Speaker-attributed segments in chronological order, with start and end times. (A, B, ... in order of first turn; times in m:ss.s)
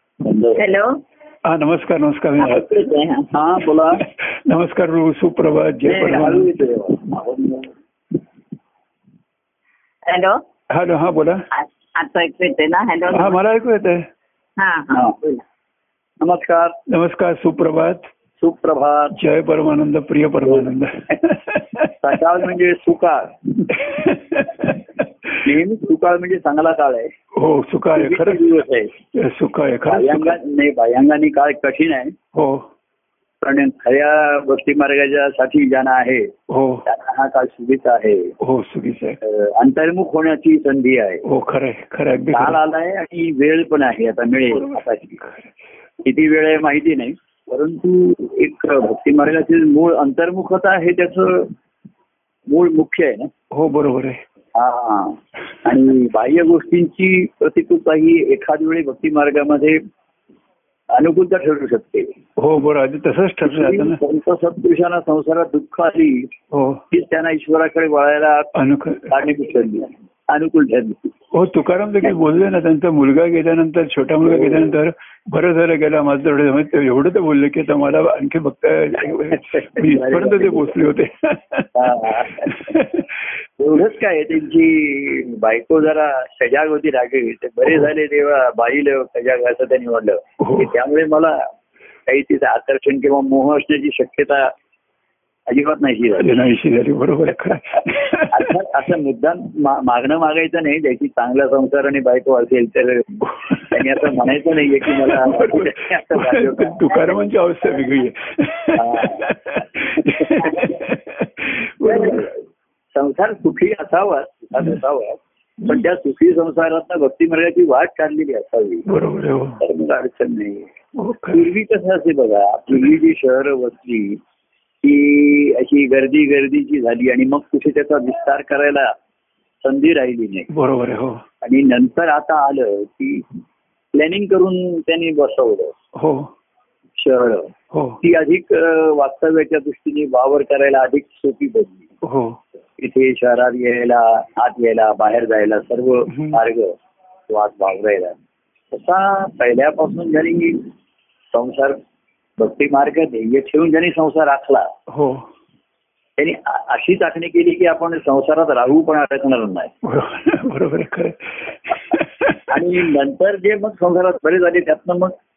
0:00.2-0:00.6 A
0:00.6-0:01.0 B
0:01.4-0:02.8 C
0:02.4-0:03.3 B
0:03.3-0:04.0 A
0:04.0-0:06.5 C
0:05.8-0:07.7 A
0:10.0-0:10.4 B
0:10.7-0:11.5 C
0:11.5-0:13.4 B
0:13.1-0:14.1 C
0:14.6-0:15.3 B
0:14.9-0:15.2 A
0:16.2-0:16.8 A
0:16.9-0:18.1 C
0:18.4-0:19.2 A
0:19.2-0:22.2 C
0:20.4-0:21.2 A
0:22.0-0:23.8 A
0:23.7-0:25.5 C
0:25.4-0:27.1 A
0:27.3-0:28.6 C
0:27.9-0:28.9 A
0:29.1-0:30.4 C
0:29.9-0:32.2 A
0:32.3-0:32.7 C
0:33.4-0:36.3 A
0:36.5-0:36.8 C
0:36.8-0:38.3 A
0:38.4-0:39.2 C
0:39.2-0:41.2 A
0:41.2-0:42.6 C
0:42.3-0:45.2 A
0:44.5-0:45.5 C
0:46.0-0:51.5 A
0:52.5-0:53.3 A
0:53.5-0:54.2 C
0:54.6-0:59.8 A
1:00.9-1:02.2 A
1:02.4-1:04.0 C
1:03.4-1:06.3 A
1:06.5-1:06.8 C
1:06.9-1:08.5 A
1:08.6-1:09.2 C
1:09.1-1:11.2 A
1:11.3-1:23.3 C
1:14.3-1:14.7 A
1:19.0-1:20.8 A
1:21.8-1:22.8 A
1:23.6-1:31.5 A
1:30.4-1:30.7 C
1:32.1-1:34.5 A
1:35.5-1:36.4 A
1:36.2-1:38.6 C
1:37.8-1:47.2 A
1:43.3-1:52.3 C
1:48.8-1:49.3 A
1:50.0-1:50.7 A
1:51.8-1:52.4 A
1:52.9-1:58.9 A
1:58.9-1:59.6 C
1:59.6-2:00.7 A
2:01.0-2:01.5 C
2:01.3-2:04.2 A
2:04.8-2:08.9 A
2:09.6-2:10.5 A
2:10.5-2:11.2 C
2:11.4-2:13.3 A
2:13.9-2:15.8 A
2:15.9-2:16.3 C
2:17.0-2:21.9 A
2:17.7-2:18.0 C
2:22.0-2:22.4 C
2:22.8-2:26.8 A
2:26.1-2:26.4 C
2:27.3-2:28.2 A
2:28.7-2:30.7 A
2:31.3-2:31.8 A
2:32.4-2:34.7 A
2:34.9-2:35.3 C
2:36.2-2:39.7 A
2:39.8-2:42.7 C
2:42.5-2:45.1 A